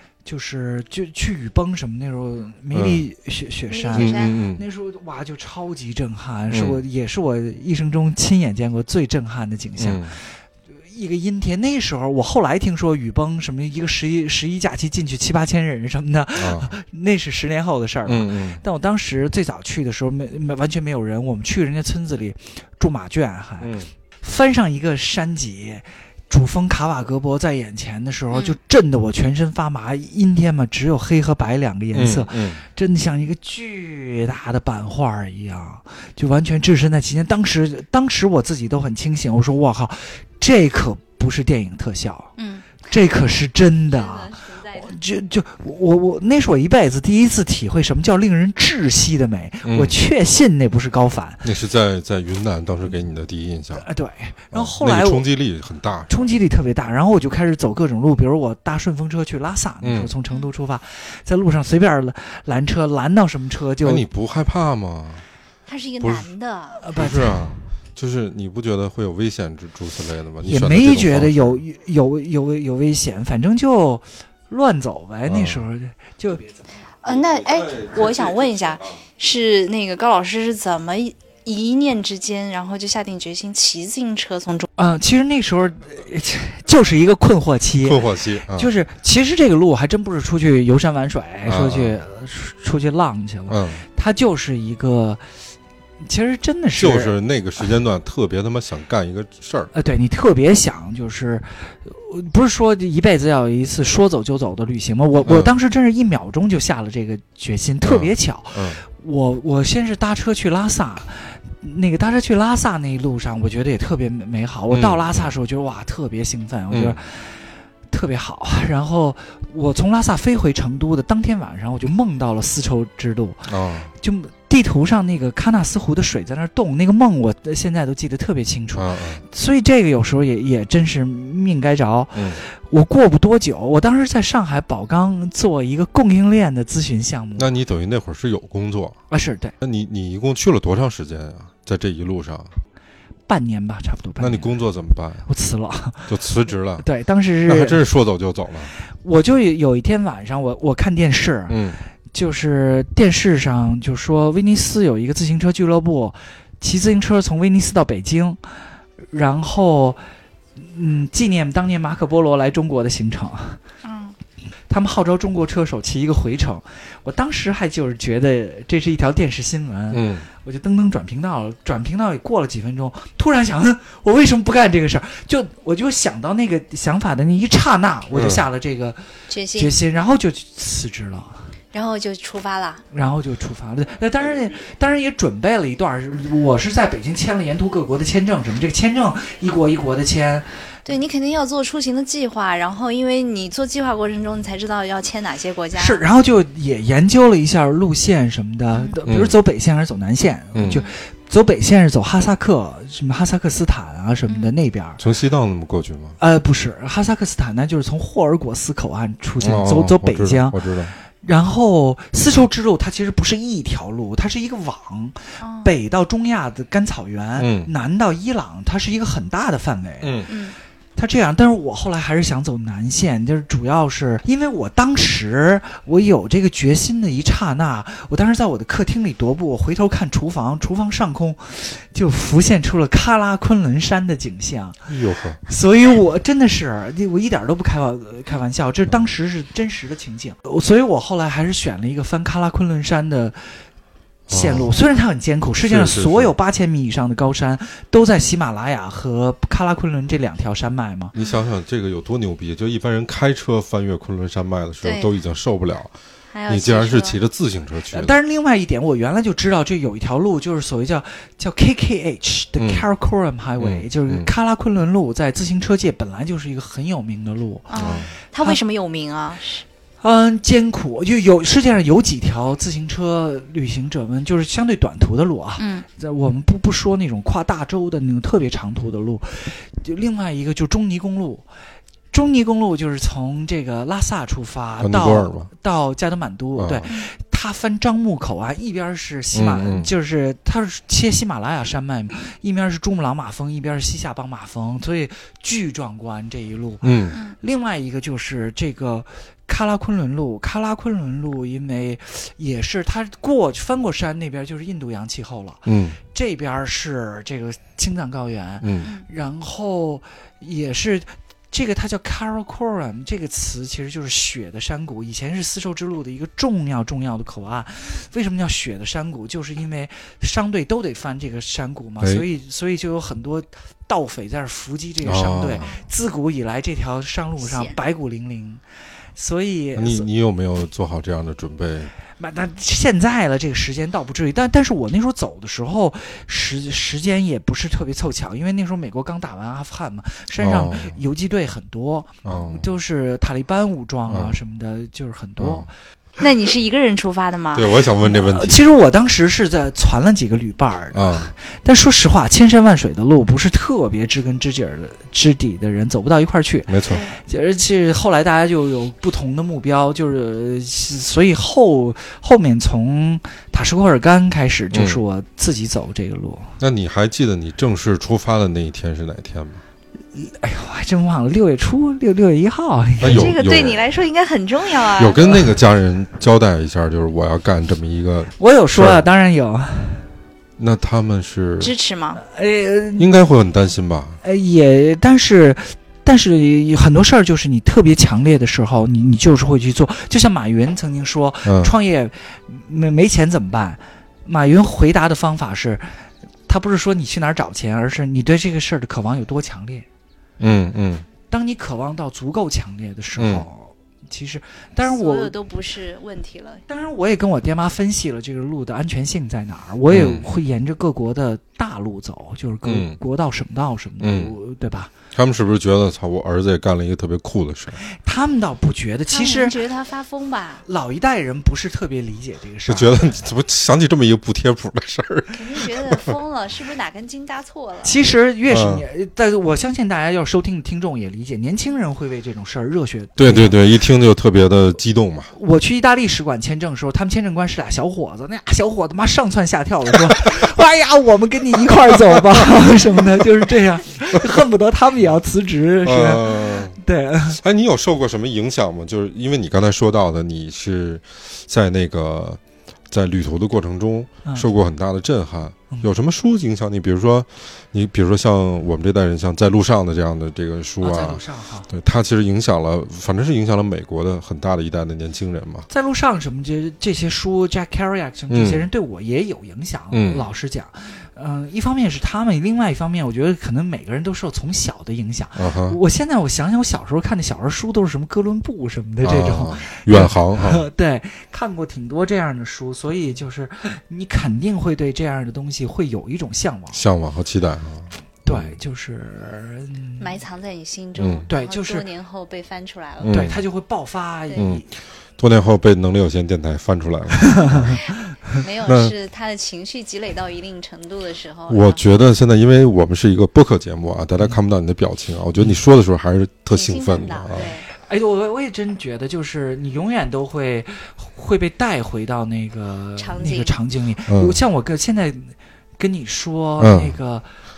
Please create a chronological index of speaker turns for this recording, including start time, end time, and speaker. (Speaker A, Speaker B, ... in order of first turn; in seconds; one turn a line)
Speaker A: 0.2-42.3
Speaker B: 2.7-3.0
Speaker C: 3.7-4.4
Speaker B: 3.9-4.6
Speaker B: 6.5-6.8
Speaker B: 9.8-10.2
Speaker B: 16.4-16.7
Speaker B: 18.1-18.6
Speaker B: 23.6-23.9
Speaker C: 28.3-28.6
Speaker B: 31.9-32.6
Speaker C: 42.4-42.9
Speaker A: 42.9-51.4
Speaker C: 43.9-45.0
Speaker B: 49.6-49.9
Speaker B: 51.4-53.9
Speaker A: 53.8-55.3
Speaker B: 54.5-56.2
Speaker A: 56.1-64.0
Speaker B: 59.8-60.1
Speaker B: 63.8-65.2
Speaker C: 65.7-66.8
Speaker B: 66.0-66.3
Speaker A: 66.8-67.4
Speaker B: 66.9-71.6
Speaker A: 70.4-76.6
Speaker B: 75.2-75.6
Speaker C: 77.0-84.7
Speaker B: 77.4-78.5
Speaker A: 84.8-95.2
Speaker B: 87.8-88.7
Speaker B: 91.4-91.9
Speaker B: 93.5-93.8
Speaker A: 96.0-97.1
Speaker B: 96.8-99.7
Speaker A: 99.7-117.4
Speaker B: 105.2-105.5
Speaker B: 107.8-108.8
Speaker B: 114.7-115.3
Speaker B: 116.7-117.0
Speaker A: 117.9-123.5
Speaker B: 123.5-123.9
Speaker A: 124.0-137.5
Speaker B: 128.8-129.2
Speaker B: 132.1-132.4
Speaker B: 137.4-139.0
Speaker A: 139.1-139.5
Speaker B: 139.6-142.5
Speaker A: 143.3-144.5
Speaker B: 144.2-145.3
Speaker A: 145.2-146.1
Speaker B: 146.1-146.8
Speaker A: 146.8-147.8
Speaker B: 147.4-148.7
Speaker A: 149.0-151.6
Speaker B: 151.5-151.8
Speaker A: 152.1-158.4
Speaker A: 159.1-160.0
Speaker A: 160.6-163.6
Speaker C: 163.8-164.1
Speaker A: 164.7-179.0
Speaker B: 169.9-170.2
Speaker B: 178.1-178.4
Speaker C: 179.3-179.7
Speaker A: 179.5-181.4
Speaker C: 181.7-182.8
Speaker A: 182.9-190.5
Speaker C: 190.8-196.0
Speaker A: 195.8-205.0
Speaker B: 199.1-199.3
Speaker B: 200.5-200.8
Speaker C: 200.6-200.9
Speaker C: 204.3-204.5
Speaker B: 205.0-206.2
Speaker A: 206.2-220.3
Speaker B: 209.4-210.9
Speaker C: 215.4-215.7
Speaker B: 217.4-217.7
Speaker B: 220.0-220.3
Speaker C: 220.3-220.6
Speaker A: 220.9-234.8
Speaker B: 234.8-235.4
Speaker A: 235.4-243.6
Speaker B: 244.3-244.7
Speaker A: 244.3-251.1
Speaker C: 244.7-245.0
Speaker B: 245.6-246.3
Speaker C: 251.1-251.4
Speaker B: 251.2-255.9
Speaker C: 254.8-255.1
Speaker C: 256.3-257.2
Speaker B: 256.5-258.1
Speaker A: 257.9-267.7
Speaker B: 262.6-262.9
Speaker B: 263.6-264.3
Speaker C: 267.7-269.6
Speaker B: 267.8-268.1
Speaker A: 270.0-281.4
Speaker C: 275.6-275.8
Speaker A: 282.1-328.6
Speaker B: 284.8-285.5
Speaker B: 286.6-286.9
Speaker B: 289.3-289.9
Speaker B: 296.8-297.2
Speaker B: 305.6-306.0
Speaker B: 308.6-308.9
Speaker B: 325.0-325.7
Speaker C: 327.4-327.7
Speaker A: 329.1-330.1
Speaker B: 329.8-331.9
Speaker A: 332.2-345.7
Speaker B: 340.4-341.0
Speaker B: 342.2-342.6
Speaker B: 344.1-344.3
Speaker B: 345.4-345.7
Speaker C: 346.2-347.7
Speaker B: 347.5-348.6
Speaker A: 348.0-366.5
Speaker B: 350.9-351.3
Speaker B: 356.7-357.0
Speaker C: 356.9-357.1
Speaker B: 364.7-365.0
Speaker B: 366.6-369.6
Speaker A: 370.1-373.3
Speaker B: 373.0-373.9
Speaker C: 373.0-375.3
Speaker B: 375.0-379.1
Speaker A: 378.4-380.1
Speaker B: 380.6-381.7
Speaker C: 381.6-382.2
Speaker A: 382.2-383.1
Speaker B: 383.0-384.2
Speaker A: 384.2-399.9
Speaker B: 391.4-391.7
Speaker B: 400.4-401.1
Speaker A: 401.3-405.3
Speaker B: 403.2-403.4
Speaker C: 404.8-406.6
Speaker A: 406.7-414.9
Speaker B: 409.9-410.2
Speaker B: 412.6-413.0
Speaker B: 414.0-414.3
Speaker B: 415.1-417.8
Speaker A: 417.9-419.6
Speaker C: 419.1-420.6
Speaker A: 420.6-423.2
Speaker B: 422.7-426.1
Speaker C: 425.3-427.9
Speaker A: 427.8-433.6
Speaker B: 428.5-428.8
Speaker B: 433.2-435.3
Speaker A: 435.3-447.4
Speaker B: 442.4-443.1
Speaker B: 445.8-465.7
Speaker A: 460.8-461.7
Speaker A: 465.7-486.8
Speaker B: 468.3-468.7
Speaker B: 469.9-470.2
Speaker B: 475.4-475.8
Speaker B: 479.0-480.6
Speaker B: 486.7-488.5
Speaker A: 488.2-490.2
Speaker C: 490.0-493.2
Speaker B: 491.0-491.3
Speaker A: 491.3-491.9
Speaker B: 493.0-493.4
Speaker A: 493.1-494.7
Speaker B: 494.4-494.6
Speaker B: 495.2-497.8
Speaker A: 497.3-497.8
Speaker C: 497.4-501.8
Speaker B: 498.6-498.9
Speaker B: 501.5-507.5
Speaker C: 506.5-507.7
Speaker A: 507.8-517.3
Speaker C: 513.0-513.5
Speaker B: 514.1-514.4
Speaker B: 516.6-517.0